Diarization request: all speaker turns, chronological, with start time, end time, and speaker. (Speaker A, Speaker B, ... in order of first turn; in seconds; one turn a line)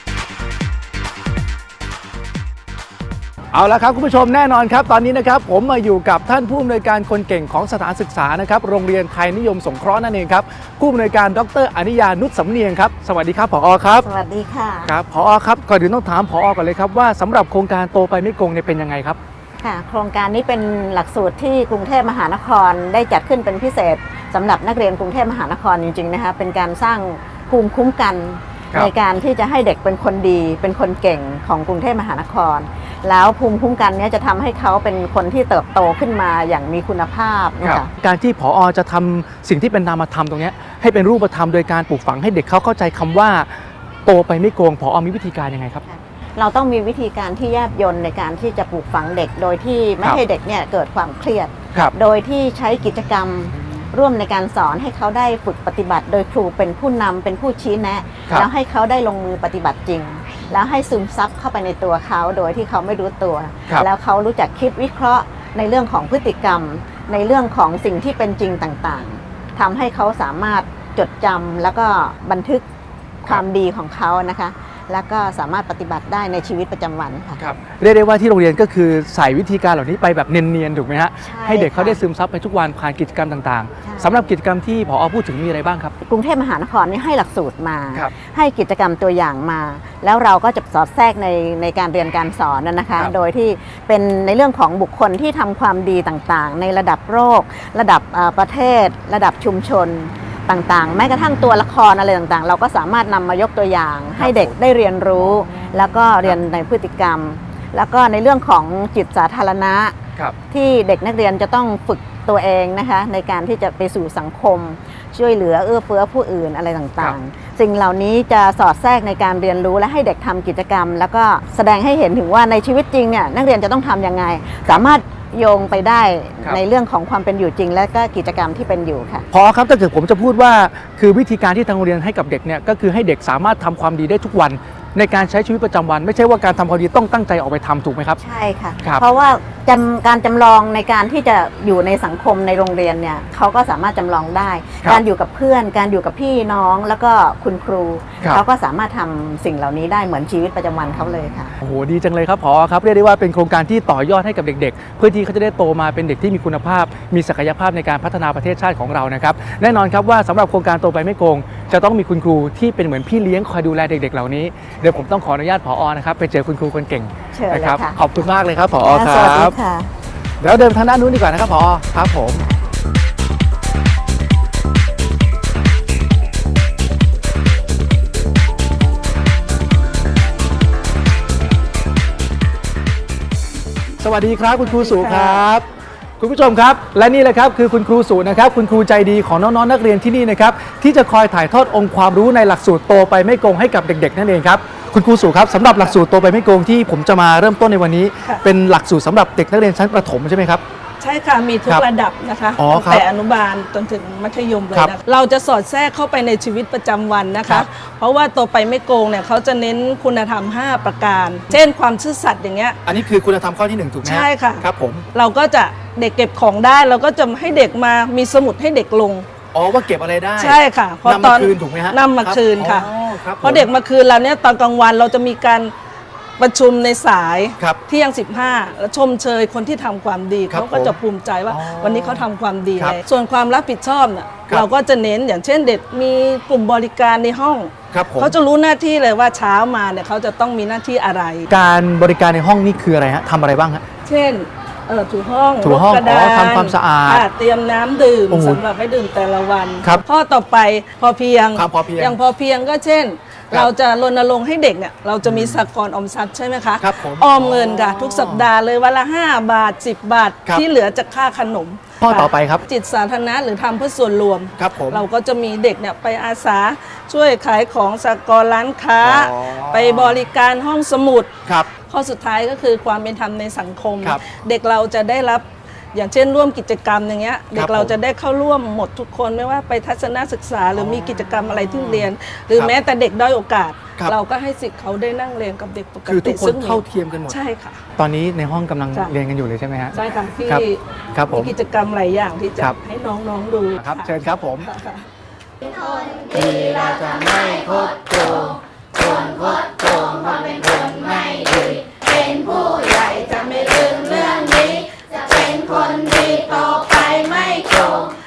Speaker A: 3.5-14.1
Speaker B: 14.0-14.9
Speaker A: 14.9-19.2
Speaker B: 19.6-37.9
Speaker A: 37.6-45.8
Speaker B: 45.9-72.7
Speaker B: 73.2-77.4
Speaker A: 77.4-85.9
Speaker B: 81.2-82.0
Speaker B: 83.8-84.2
Speaker B: 86.0-110.0
Speaker A: 104.2-104.5
Speaker A: 105.2-106.4
Speaker B: 110.5-129.3
Speaker A: 129.3-138.2
Speaker B: 138.2-151.5
Speaker A: 151.6-169.6
Speaker B: 167.3-168.0
Speaker B: 168.8-169.9
Speaker A: 170.4-172.4
Speaker A: 184.0-185.7
Speaker C: 184.6-185.4
Speaker A: 186.2-200.6
Speaker C: 201.0-212.8
Speaker A: 202.6-203.1
Speaker A: 212.8-215.1
Speaker C: 214.0-214.6
Speaker C: 215.2-219.3
Speaker A: 219.5-223.7
Speaker C: 220.4-225.7
Speaker C: 226.4-241.5
Speaker A: 230.5-231.0
Speaker A: 231.5-233.0
Speaker A: 237.9-238.4
Speaker A: 241.5-243.8
Speaker C: 244.1-271.3
Speaker A: 245.6-247.3
Speaker A: 248.3-248.6
Speaker A: 251.5-252.2
Speaker A: 255.2-255.7
Speaker A: 256.8-258.5
Speaker A: 262.0-262.6
Speaker A: 264.6-265.1
Speaker A: 269.0-270.3
Speaker A: 271.5-271.7
Speaker C: 271.9-287.8
Speaker A: 274.0-274.4
Speaker A: 277.5-278.0
Speaker A: 280.7-282.7
Speaker A: 286.1-287.4
Speaker A: 288.0-291.5
Speaker C: 289.9-290.8
Speaker C: 291.3-295.1
Speaker A: 293.8-294.7
Speaker A: 296.3-302.4
Speaker C: 302.4-308.2